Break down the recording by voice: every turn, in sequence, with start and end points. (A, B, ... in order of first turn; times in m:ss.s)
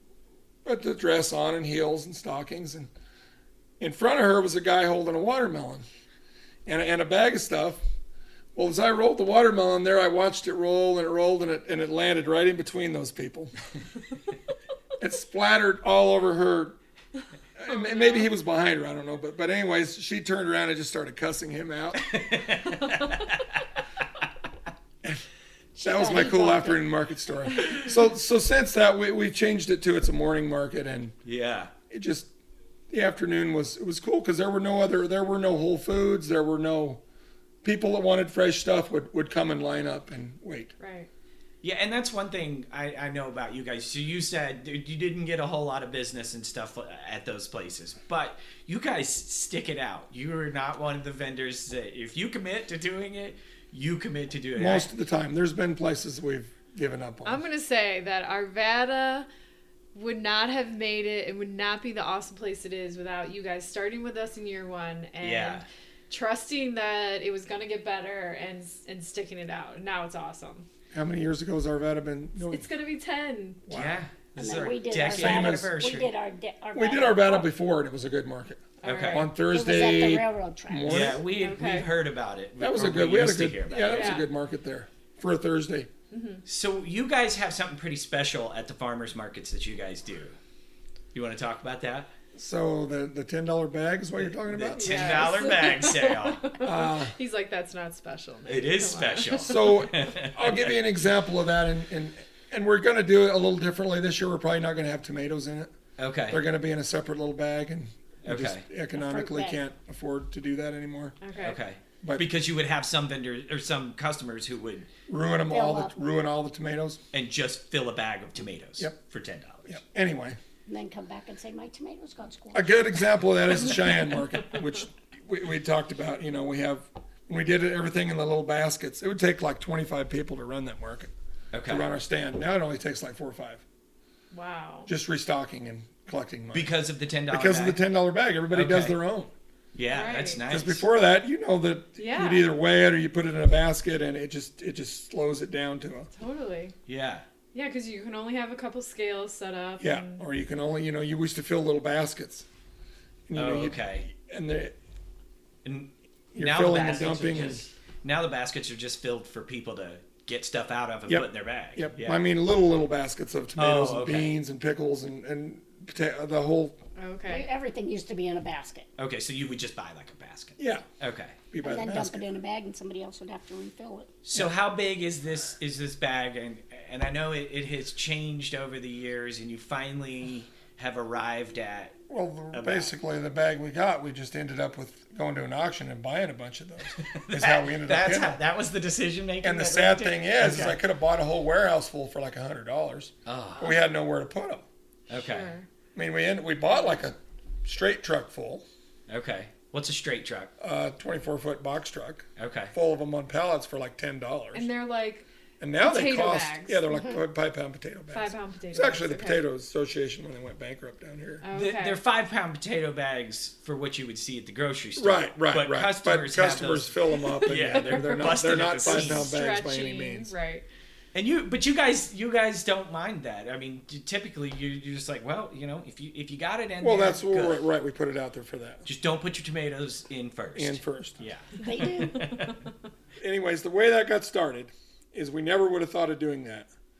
0:00.6-0:02.9 A
0:03.8-0:05.8 A
0:06.7-0:07.8 A
0:08.6-0:13.5 A
0:15.0-0:16.8 A
0:17.6-0:22.0 A
0:17.7-0:18.3 B
0:22.0-0:23.6 C
0:25.8-0:26.8 D
0:25.8-0:31.2 A
0:31.2-0:31.7 C
0:31.9-0:32.3 A
0:32.9-0:37.0 A
0:37.6-0:40.7 A
0:40.8-0:41.1 B
0:41.6-0:54.9 C
0:54.6-0:57.4 A
0:57.2-0:59.3 B
0:59.9-1:10.7 B
1:05.2-1:05.7 C
1:10.9-1:12.7 A
1:12.5-1:13.6 B
1:13.7-1:14.0 A
1:13.7-1:16.1 C
1:14.4-1:17.5 D
1:15.0-1:15.7 A
1:16.7-1:21.2 A
1:18.8-1:19.3 B
1:18.8-1:19.3 C
1:19.5-1:21.1 D
1:20.9-1:24.2 C
1:21.4-1:21.9 B
1:22.6-1:25.9 A
1:23.9-1:24.3 B
1:26.1-1:26.4 B
1:26.4-1:30.4 C
1:31.1-1:32.1 C
1:32.3-1:35.3 A
1:34.2-1:36.5 C
1:34.8-1:39.7 B
1:36.6-1:37.1 A
1:38.5-1:40.7 C
1:39.4-1:45.7 A
1:46.0-1:46.4 C
1:46.3-1:51.2 A
1:48.2-1:48.7 C
1:49.0-1:49.6 D
1:51.2-1:51.6 B
1:51.4-1:54.9 C
1:55.1-1:57.0 A
1:55.5-1:55.9 D
1:57.1-1:59.8 C
1:59.7-2:00.4 A
2:00.7-2:02.7 D
2:02.5-2:11.1 A
2:11.5-2:11.9 C
2:11.7-2:13.6 A
2:14.3-2:14.9 B
2:14.9-2:16.7 A
2:16.5-2:17.8 C
2:17.3-2:19.3 A
2:18.5-2:19.0 C
2:19.8-2:20.9 C
2:19.9-2:20.4 B
2:20.5-2:26.1 A
2:22.0-2:22.5 B
2:26.1-2:26.8 B
2:26.9-2:27.3 C
2:27.5-2:30.2 B
2:29.8-2:32.5 A
2:33.3-2:34.8 A
2:33.4-2:34.1 C
2:35.6-2:42.2 C
2:36.3-2:37.7 A
2:41.1-2:46.8 A
2:43.6-2:44.3 C
2:47.0-2:47.5 B
2:47.3-2:48.9 D
2:49.0-2:51.4 C
2:50.6-2:50.8 A
2:51.5-2:52.3 A
2:51.6-2:54.1 D
2:54.2-3:02.0 C
3:02.1-3:08.4 A
3:02.5-3:02.9 C
3:06.9-3:10.8 C
3:09.4-3:14.6 A
3:13.3-3:13.8 C
3:15.1-3:15.5 C
3:15.2-3:15.7 B
3:15.9-3:18.6 A
3:19.1-3:20.5 C
3:20.6-3:24.7 A
3:22.4-3:22.7 C
3:24.5-3:25.3 B
3:25.6-3:31.4 A
3:25.8-3:26.8 B
3:26.9-3:27.2 D
3:28.1-3:29.4 B
3:31.4-3:32.0 B
3:31.5-3:39.3 C
3:35.0-3:40.3 A
3:37.2-3:40.7 B
3:41.1-3:47.6 C
3:46.8-3:48.8 A
3:48.8-3:52.6 C
3:50.6-3:51.2 A
3:51.6-3:52.3 D
3:53.2-3:56.7 A